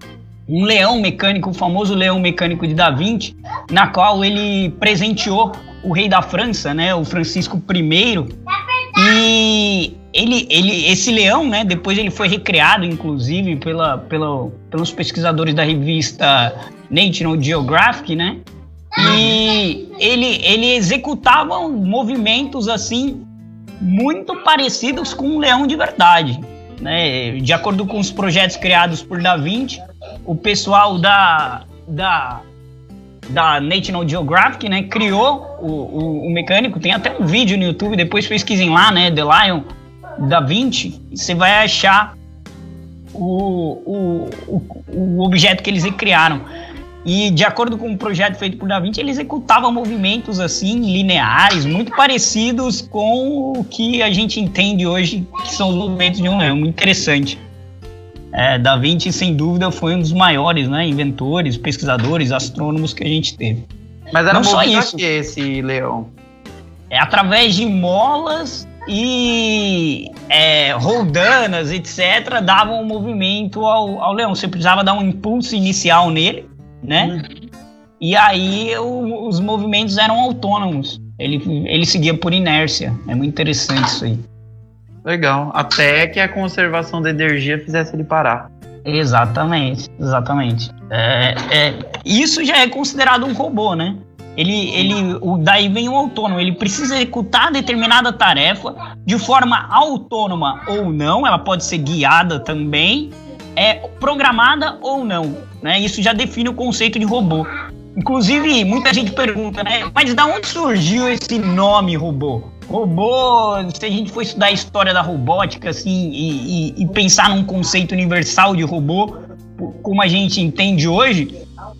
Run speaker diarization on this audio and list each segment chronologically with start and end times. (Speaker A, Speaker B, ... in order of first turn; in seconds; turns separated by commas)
Speaker A: 0.5-8.3, Speaker A: 8.9-18.4, Speaker A: 19.0-23.2, Speaker B: 19.0-19.4, Speaker A: 23.8-32.4, Speaker A: 33.3-39.7, Speaker A: 40.2-42.1, Speaker A: 43.1-46.4, Speaker A: 47.0-57.4, Speaker A: 58.3-63.7, Speaker B: 64.1-66.1, Speaker A: 64.3-65.0, Speaker A: 66.9-77.2, Speaker B: 77.0-77.5, Speaker A: 78.0-84.2, Speaker B: 85.0-88.5, Speaker A: 88.8-121.3